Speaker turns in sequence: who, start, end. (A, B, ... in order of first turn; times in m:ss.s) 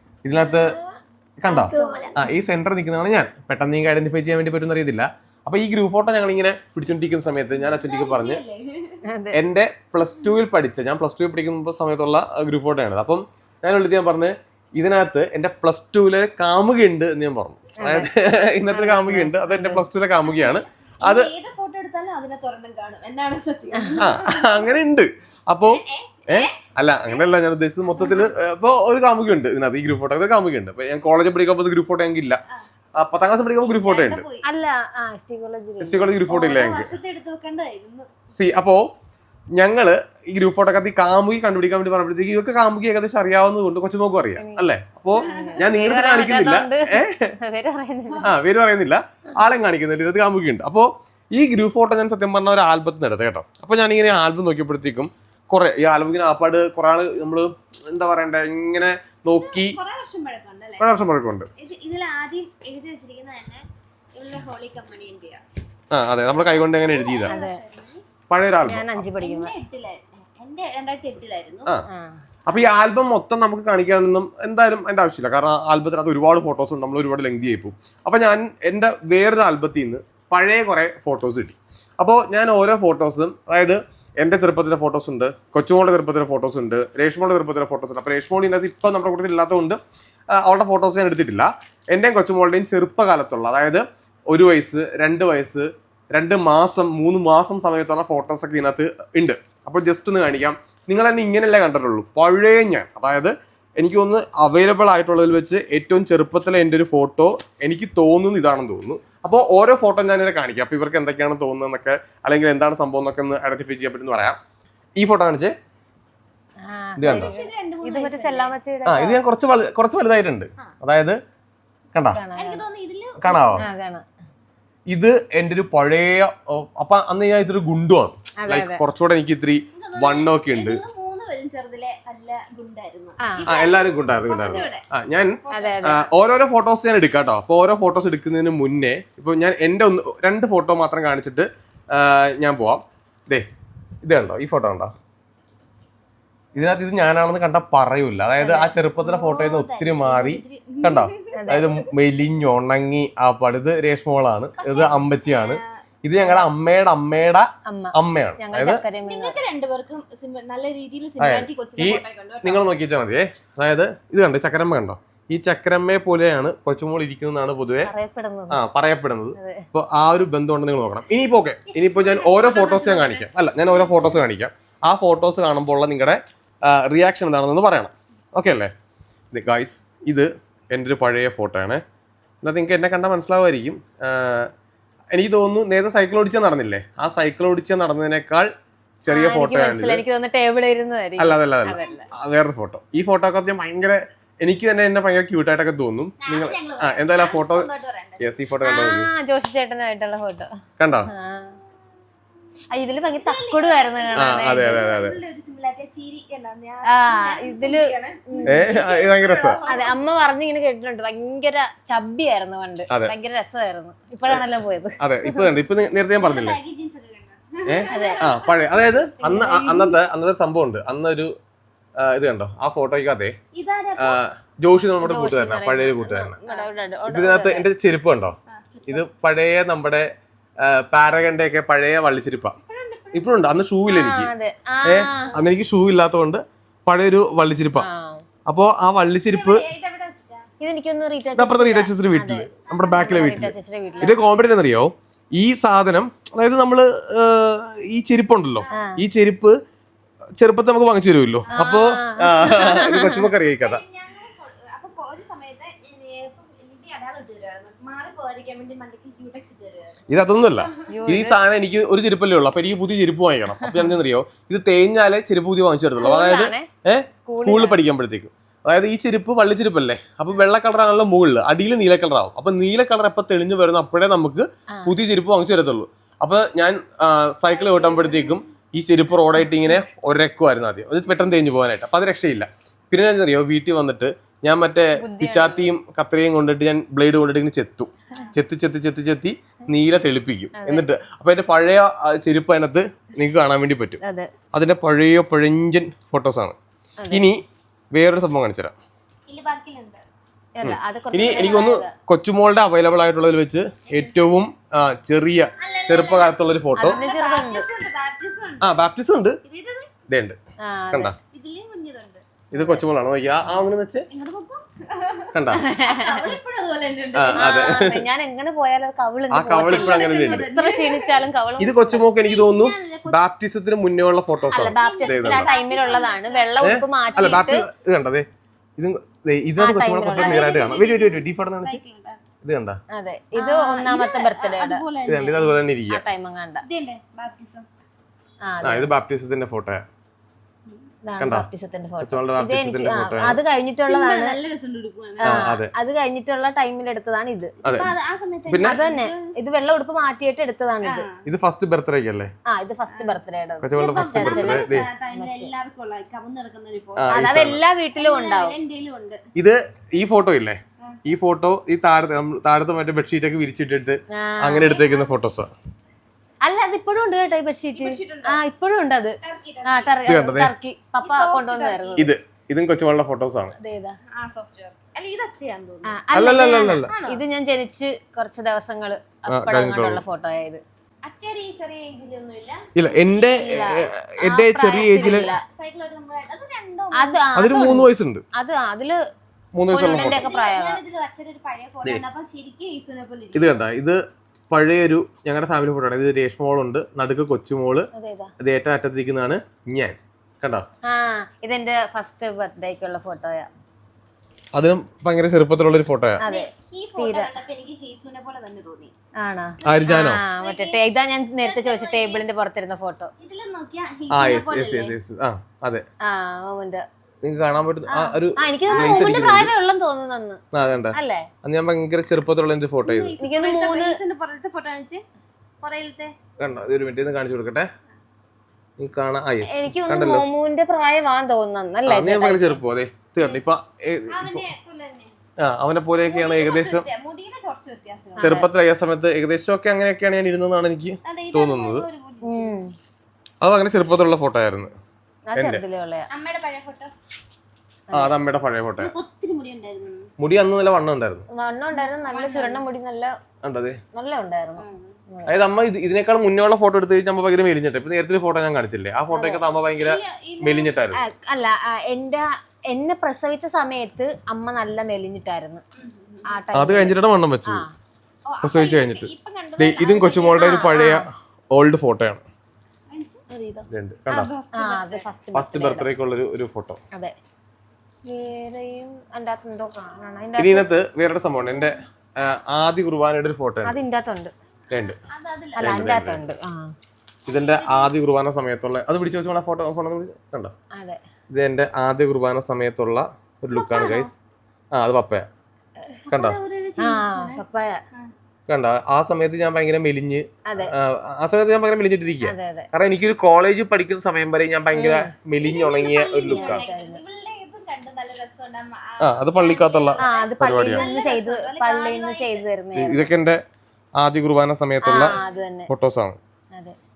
0:00.2-0:00.8 A
0:00.4-0:00.7 B
0:01.4-0:08.4 A
0:01.5-0:02.3 C
0:01.5-0:02.3 B
0:07.5-0:09.0 C
0:09.1-0:09.4 B
0:09.3-0:21.3 A
0:17.8-0:18.1 B
0:18.7-0:19.8 B
0:20.2-0:24.8 C
0:24.0-0:32.4 A
0:25.6-0:27.2 C
0:28.0-0:28.3 C
0:33.0-0:34.2 A
0:33.6-0:34.5 C
0:34.4-0:36.1 B
0:35.8-0:36.9 A
0:36.3-0:38.1 C
0:38.3-0:38.9 A
0:39.6-0:47.4 A
0:44.4-0:48.3 B
0:45.1-0:45.8 C
0:48.2-0:59.8 A
0:59.4-1:00.9 C
1:00.8-1:01.5 A
1:01.6-1:05.4 C
1:05.9-1:07.3 A
1:06.7-1:08.0 C
1:07.3-1:07.6 B
1:08.3-1:09.0 A
1:08.7-1:09.5 B
1:09.2-1:11.7 C
1:11.9-1:12.2 B
1:12.5-1:29.8 A
1:30.3-1:54.4 A
1:55.0-1:55.6 A
1:56.6-1:59.2 B
1:57.0-1:57.3 A
1:57.0-1:58.6 C
1:58.8-2:01.2 A
2:01.9-2:02.2 A
2:02.2-2:02.6 B
2:02.4-2:03.6 C
2:03.2-2:03.6 A
2:03.6-2:04.0 B
2:04.9-2:10.8 A
2:08.4-2:08.8 B
2:09.7-2:14.8 C
2:13.2-2:13.5 B
2:13.5-2:23.5 A
2:15.4-2:16.0 C
2:15.5-2:16.0 B
2:24.0-2:24.9 A
2:26.6-2:38.8 A
2:28.4-2:28.8 B
2:29.0-2:31.8 C
2:31.3-2:31.7 B
2:34.6-2:35.8 C
2:37.7-2:39.4 B
2:39.1-2:42.6 C
2:41.2-2:47.9 A
2:47.9-2:48.6 B
2:48.5-2:58.7 A
2:49.4-2:49.6 B
2:51.7-2:54.2 C
2:59.3-3:01.8 A
3:02.4-3:04.5 A
3:05.1-3:08.5 A
3:09.0-3:10.0 A
3:09.1-3:12.1 B
3:11.2-3:17.7 A
3:11.7-3:12.1 C
3:16.2-3:18.3 C
3:18.2-3:19.1 A
3:18.6-3:20.5 B
3:20.8-3:21.1 A
3:21.1-3:21.6 B
3:22.7-3:24.8 B
3:23.2-3:30.0 C
3:24.2-3:25.2 A
3:26.9-3:28.7 B
3:28.5-3:29.6 A
3:29.7-3:35.5 B
3:35.0-3:36.6 A
3:36.2-3:38.6 C
3:37.7-3:41.3 A
3:37.9-3:38.3 B
3:39.2-3:40.0 C
3:42.0-3:43.4 A
3:43.5-3:44.2 C
3:44.0-3:46.4 A
3:45.0-3:47.7 B
3:47.1-3:48.4 A
3:48.5-3:49.1 C
3:48.9-3:50.1 A
3:50.6-3:52.6 A
3:52.7-3:53.5 C
3:53.1-3:54.3 A
3:53.9-3:55.4 B
3:54.8-3:57.9 A
3:57.8-3:58.2 B
3:58.5-3:59.6 A
3:59.2-4:00.5 C
4:00.6-4:04.2 B
4:01.4-4:09.6 A
4:02.7-4:03.1 C
4:08.6-4:08.9 C
4:08.7-4:09.0 B
4:10.4-4:13.8 A
4:11.5-4:13.3 B
4:13.5-4:20.0 C
4:20.1-4:54.0 A
4:20.9-4:21.4 B
4:23.6-4:23.9 B
4:26.0-4:26.7 B
4:27.2-4:27.8 B
4:37.5-4:38.4 C
4:45.0-4:45.7 B
4:50.6-4:50.9 B
4:54.0-4:54.3 B
4:54.5-4:56.6 A
4:57.0-4:57.3 B
4:57.1-4:57.4 A
4:57.9-4:58.8 A
4:59.3-5:00.0 C
5:00.6-5:01.9 B
5:00.6-5:07.0 A
5:01.3-5:01.7 C
5:05.6-5:08.7 C
5:06.8-5:07.7 B
5:08.6-5:09.4 A
5:09.4-5:09.9 C
5:10.1-5:10.4 A
5:10.6-5:11.1 B
5:11.3-5:12.2 C
5:12.5-5:14.1 A
5:12.6-5:12.8 B
5:14.1-5:17.9 C
5:15.3-5:15.6 A
5:15.5-5:16.4 B
5:17.1-5:18.0 A
5:17.4-5:22.1 B
5:19.3-5:20.5 A
5:19.6-5:21.3 C
5:21.6-5:25.5 A
5:22.2-5:23.2 C
5:24.5-5:27.6 B
5:24.5-5:27.5 C
5:26.6-5:31.8 A
5:29.6-5:30.6 B
5:30.1-5:32.2 C
5:32.4-5:32.8 A
5:32.9-5:34.8 B
5:33.4-5:35.6 C
5:35.1-5:36.0 A
5:35.9-5:36.6 B
5:36.6-5:37.7 C
5:38.5-5:38.9 B
5:38.6-5:39.8 A
5:41.1-5:44.4 B
5:41.2-5:41.5 A
5:42.0-5:43.4 A
5:43.8-5:45.6 C
5:45.2-5:47.6 B
5:45.2-5:45.7 A
5:47.6-5:49.2 C
5:47.6-5:47.9 A
5:48.5-5:48.8 A
5:48.6-5:51.1 B
5:50.8-5:51.2 C
5:51.2-5:52.3 A
5:52.5-5:55.5 B
5:52.9-5:53.2 C
5:53.6-5:54.9 A
5:53.8-5:57.2 C
5:57.0-5:57.6 A
5:57.1-5:58.6 B
5:58.0-5:59.2 C
5:59.4-6:05.5 A
6:04.1-6:04.8 B
6:04.6-6:05.1 C
6:06.4-6:12.1 B
6:07.7-6:08.4 C
6:09.2-6:10.0 C
6:10.1-6:10.5 A
6:11.0-6:12.1 C
6:12.0-6:13.5 A
6:13.6-6:14.0 B
6:14.1-6:16.0 C
6:15.9-6:20.6 B
6:16.1-6:16.9 A
6:16.9-6:17.2 C
6:19.3-6:20.0 A
6:21.0-6:23.8 C
6:22.8-6:25.3 A
6:24.2-6:25.4 B
6:24.7-6:27.7 C
6:27.0-6:29.0 B
6:27.4-6:28.2 A
6:29.6-6:30.2 A
6:29.7-6:30.8 B
6:29.8-6:33.5 C
6:33.3-6:34.0 A
6:34.5-6:40.7 A
6:37.9-6:38.3 B
6:40.9-6:43.5 B
6:44.5-6:46.2 A
6:46.2-6:47.4 B
6:46.2-6:48.9 C
6:49.2-6:53.1 B
6:49.6-6:50.9 C
6:49.6-6:50.2 A
6:51.4-6:52.3 C
6:53.2-6:55.0 C
6:54.1-6:55.8 A
6:56.0-6:56.8 B
6:57.2-6:59.5 A
6:57.9-6:59.3 C
6:58.4-7:00.4 B
7:00.5-7:03.1 A
7:00.9-7:01.3 B
7:02.8-7:05.0 C
7:03.2-7:04.0 B
7:05.6-7:06.1 C
7:06.4-7:07.7 A
7:08.8-7:10.2 A
7:09.5-7:12.6 B
7:11.9-7:14.4 A
7:14.1-7:15.1 C
7:15.4-7:16.9 A
7:16.1-7:18.4 C
7:18.2-7:18.5 B
7:18.2-7:21.9 A
7:21.0-7:22.6 C
7:22.2-7:22.7 B
7:23.4-7:24.7 A
7:25.3-7:26.1 B
7:25.4-7:25.6 A
7:26.1-7:26.9 C
7:27.9-7:28.1 B
7:27.9-7:28.9 A
7:28.8-7:30.1 C
7:30.2-7:31.3 A
7:31.3-7:33.1 B
7:31.7-7:32.7 C
7:33.4-7:33.8 A
7:34.0-7:35.3 B
7:34.6-7:35.0 C
7:35.3-7:41.0 A
7:39.1-7:39.4 B
7:39.8-7:40.8 C
7:41.0-7:45.6 B
7:45.8-7:46.4 C
7:46.3-7:47.7 B
7:46.5-7:47.6 A
7:48.3-7:50.6 C
7:48.4-7:52.2 A
7:50.4-7:51.1 B
7:52.9-7:53.2 C
7:53.3-7:53.7 B
7:53.7-7:54.3 A
7:54.1-7:55.1 C
7:54.5-7:55.9 B
7:55.3-7:56.8 A
7:58.1-8:00.7 B
8:00.4-8:03.8 A
8:03.6-8:04.3 B
8:04.7-8:05.0 A
8:04.8-8:05.7 C
8:05.6-8:06.7 B
8:05.6-8:06.2 A
8:07.3-8:07.9 C
8:07.3-8:10.5 A
8:10.8-8:11.0 B
8:11.3-8:14.1 A
8:13.5-8:14.1 C
8:14.7-8:15.3 A
8:16.1-8:18.1 C
8:16.1-8:16.4 A
8:16.8-8:17.8 B
8:18.5-8:26.6 A
8:20.5-8:20.7 B
8:22.2-8:22.7 B
8:24.7-8:25.1 B
8:25.4-8:32.4 C
8:26.3-8:27.0 B
8:29.0-8:30.9 A
8:30.0-8:33.1 B
8:32.8-8:33.4 A
8:34.0-8:35.2 A
8:34.8-8:35.7 B
8:34.9-8:35.5 C
8:35.7-8:36.2 A